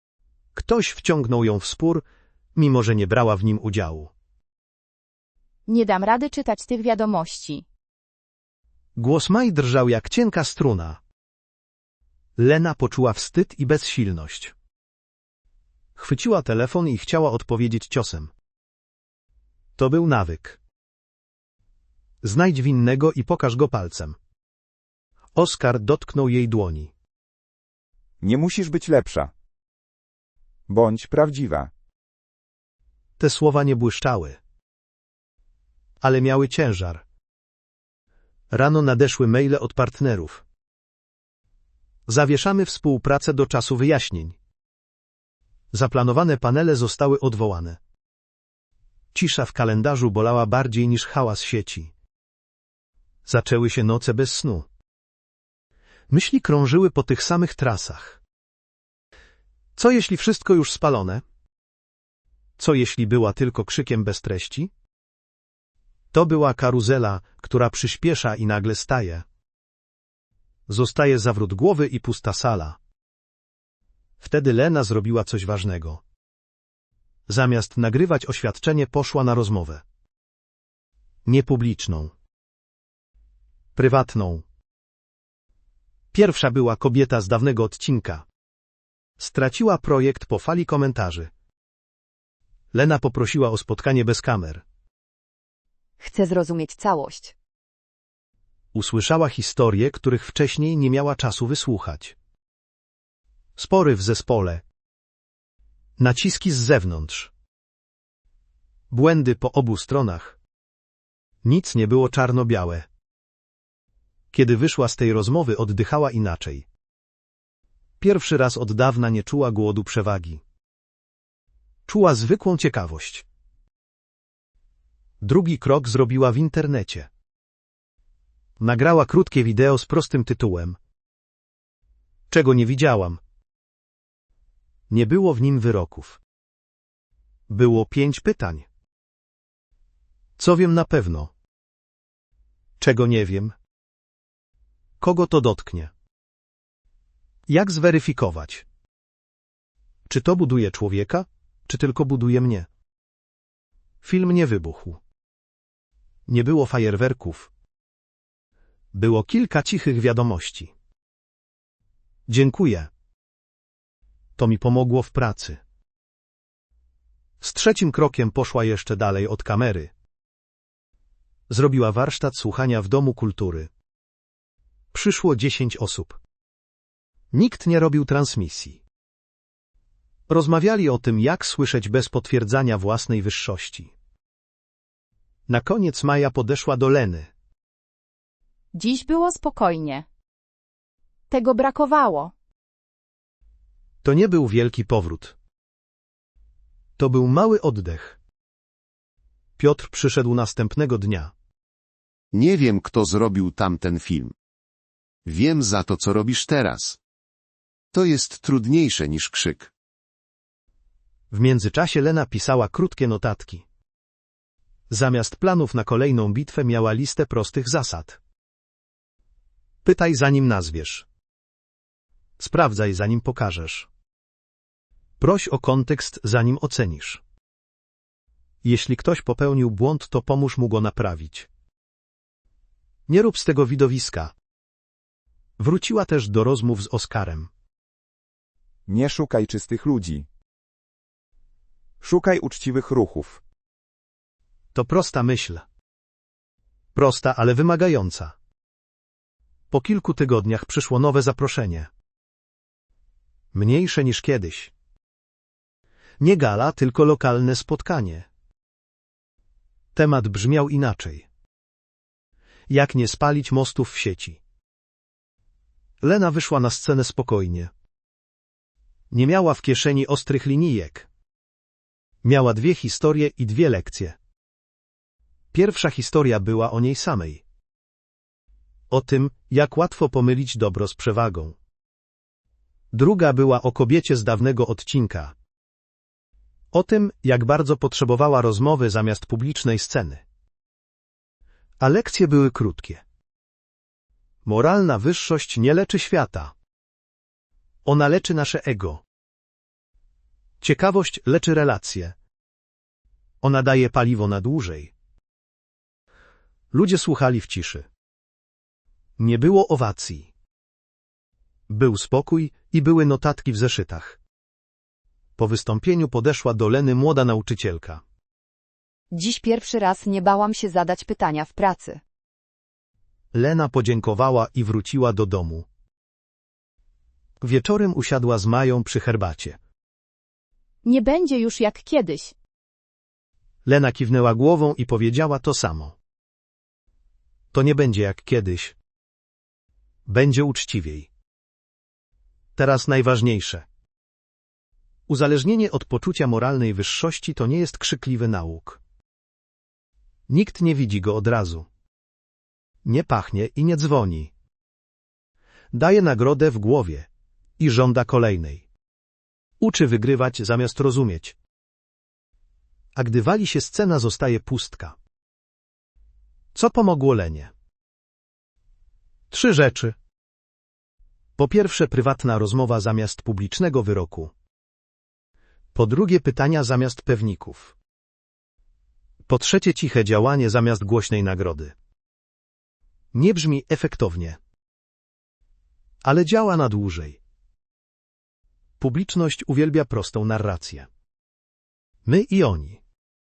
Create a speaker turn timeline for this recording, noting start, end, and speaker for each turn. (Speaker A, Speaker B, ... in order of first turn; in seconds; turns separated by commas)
Speaker A: 0.5-4.1, Speaker B: 5.7-7.7, Speaker A: 9.0-11.0, Speaker A: 12.4-14.5, Speaker A: 16.0-18.3, Speaker A: 19.8-20.6, Speaker A: 22.2-24.2, Speaker A: 25.4-26.9, Speaker C: 28.2-29.3, Speaker C: 30.7-31.7, Speaker A: 33.2-34.4, Speaker A: 36.0-37.0, Speaker A: 38.5-40.4, Speaker A: 42.1-44.4, Speaker A: 45.7-47.8, Speaker A: 49.1-51.9, Speaker A: 53.3-54.7, Speaker A: 56.1-58.2, Speaker A: 59.8-61.2, Speaker A: 62.6-64.7, Speaker A: 66.1-69.2, Speaker A: 70.7-72.8, Speaker A: 74.2-76.0, Speaker A: 77.3-79.8, Speaker A: 81.3-82.1, Speaker A: 83.8-84.5, Speaker A: 86.1-88.2, Speaker A: 89.2-91.3, Speaker A: 92.7-94.6, Speaker D: 96.0-97.3, Speaker A: 98.7-102.2, Speaker A: 103.6-104.6, Speaker A: 106.0-107.3, Speaker A: 108.9-110.4, Speaker A: 111.4-112.9, Speaker A: 114.3-116.7, Speaker A: 118.0-120.4, Speaker A: 121.9-123.2, Speaker A: 125.2-127.1, Speaker A: 128.6-130.8, Speaker A: 132.3-133.2, Speaker A: 134.9-136.2, Speaker A: 137.5-138.7, Speaker A: 140.4-141.3, Speaker A: 142.8-143.6, Speaker A: 145.0-145.9, Speaker A: 147.5-148.7, Speaker A: 150.1-152.7, Speaker A: 154.0-155.0, Speaker A: 156.3-157.5, Speaker A: 158.9-160.7, Speaker A: 162.3-162.9, Speaker A: 164.4-165.6, Speaker A: 167.4-169.9, Speaker A: 171.5-173.7, Speaker A: 174.9-176.2, Speaker A: 177.3-178.8, Speaker A: 180.3-183.9, Speaker A: 185.5-187.3, Speaker B: 188.7-190.1, Speaker B: 191.3-192.3, Speaker A: 194.0-195.3, Speaker A: 197.0-198.2, Speaker A: 199.6-201.3, Speaker E: 202.3-204.3, Speaker E: 205.3-207.0, Speaker E: 207.9-209.7, Speaker A: 211.3-213.6, Speaker A: 214.9-218.2, Speaker A: 219.8-221.1, Speaker A: 222.4-223.9, Speaker A: 225.2-227.2, Speaker A: 228.6-231.5, Speaker A: 233.1-234.3, Speaker A: 235.6-237.5, Speaker C: 238.9-240.3, Speaker C: 242.0-243.4, Speaker A: 244.7-245.6, Speaker A: 246.9-248.3, Speaker A: 249.7-251.9, Speaker A: 253.5-254.7, Speaker A: 256.2-258.3, Speaker A: 259.9-261.3, Speaker A: 262.7-264.4, Speaker A: 266.0-267.7, Speaker A: 269.1-271.1, Speaker A: 272.2-274.2, Speaker A: 275.5-277.4, Speaker A: 278.9-281.6, Speaker A: 282.9-285.3, Speaker A: 286.7-290.2, Speaker A: 291.8-293.0, Speaker A: 294.4-296.5, Speaker A: 297.9-299.0, Speaker A: 300.6-302.2, Speaker A: 303.4-304.9, Speaker A: 306.7-307.9, Speaker A: 309.2-310.3, Speaker A: 311.7-314.2, Speaker A: 315.4-318.0, Speaker D: 319.1-322.0, Speaker A: 323.3-325.7, Speaker A: 327.4-329.6, Speaker B: 330.9-332.3, Speaker A: 333.7-336.0, Speaker A: 337.5-338.8, Speaker A: 340.1-341.1, Speaker A: 342.6-343.7, Speaker A: 345.1-348.8, Speaker A: 350.3-351.7, Speaker A: 352.9-354.3, Speaker A: 355.7-358.6, Speaker A: 359.6-361.4, Speaker A: 362.9-365.0, Speaker A: 366.5-367.5, Speaker A: 369.3-370.0, Speaker A: 371.4-374.3, Speaker A: 375.7-377.7, Speaker A: 379.3-381.7, Speaker A: 383.1-384.4, Speaker A: 386.0-387.2, Speaker A: 388.8-390.9, Speaker A: 392.1-392.8